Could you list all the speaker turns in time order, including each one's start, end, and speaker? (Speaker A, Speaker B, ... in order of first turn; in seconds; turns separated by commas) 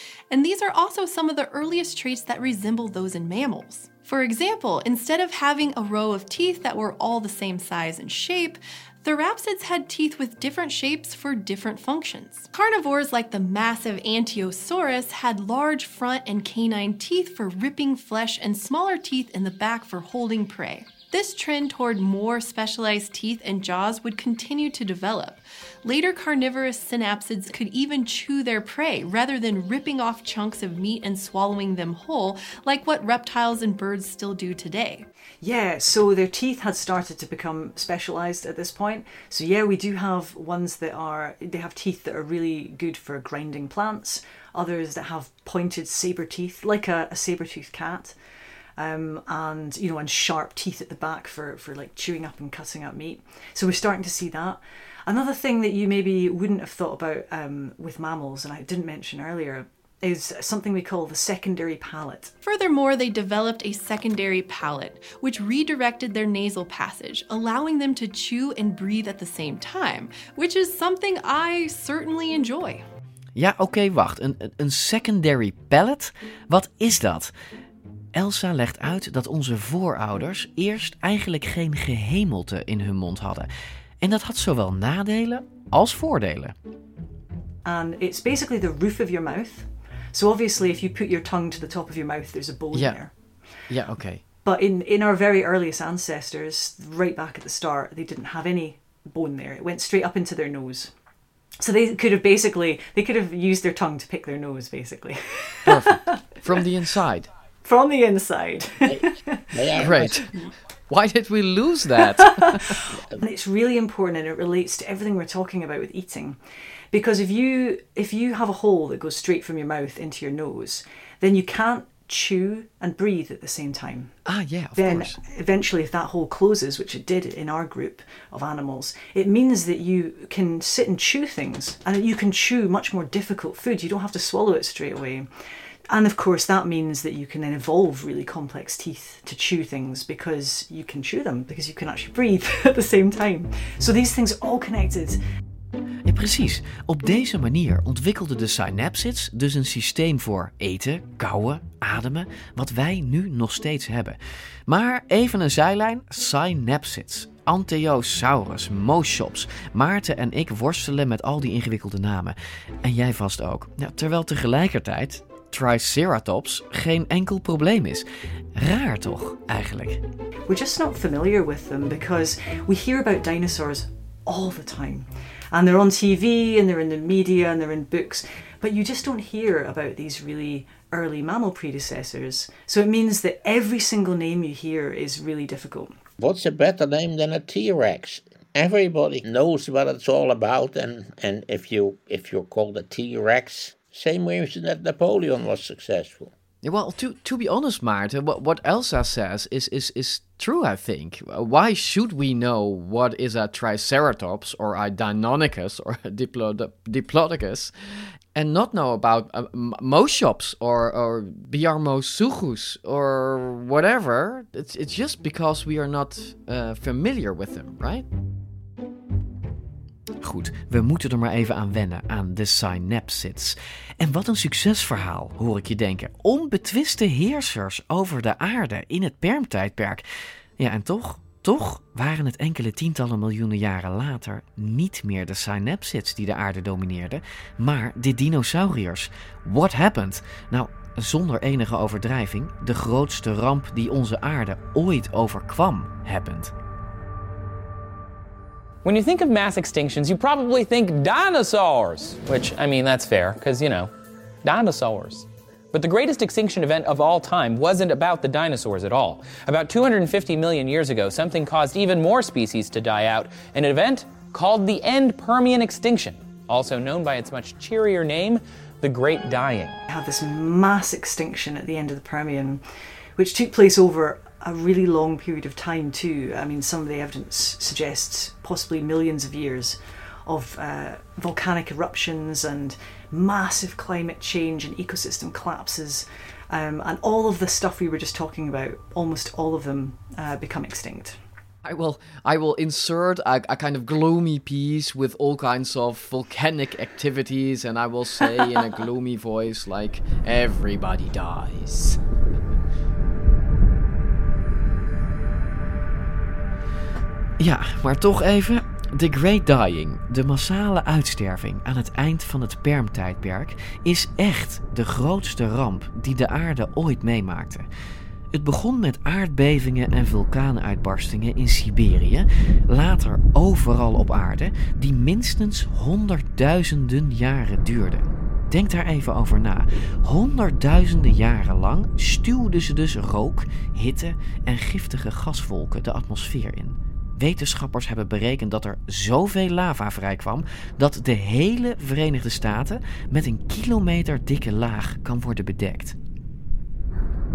Speaker A: 0.3-35.1, Speaker B: 35.4-48.1, Speaker B: 48.8-62.3, Speaker A: 62.4-72.9, Speaker C: 73.3-77.3, Speaker C: 78.1-83.5, Speaker C: 84.0-86.5, Speaker B: 87.7-93.1, Speaker C: 92.7-93.0, Speaker C: 93.7-94.2, Speaker B: 94.5-100.9, Speaker B: 101.6-106.2, Speaker C: 105.7-107.3, Speaker B: 107.6-109.5, Speaker D: 108.9-110.2, Speaker C: 109.8-110.3, Speaker C: 110.9-112.8, Speaker B: 112.2-116.4, Speaker B: 116.9-124.2, Speaker C: 124.3-125.2, Speaker B: 124.8-135.3, Speaker B: 135.9-145.2, Speaker C: 146.1-170.0, Speaker B: 170.5-185.9, Speaker D: 186.2-196.3, Speaker C: 196.6-207.7, Speaker C: 208.3-218.1, Speaker C: 220.2-230.1, Speaker C: 230.6-246.5, Speaker E: 248.8-253.9, Speaker E: 254.4-269.8, Speaker B: 269.9-272.6, Speaker B: 273.2-291.2, Speaker C: 291.6-302.0, Speaker C: 307.4-317.7, Speaker C: 318.3-346.0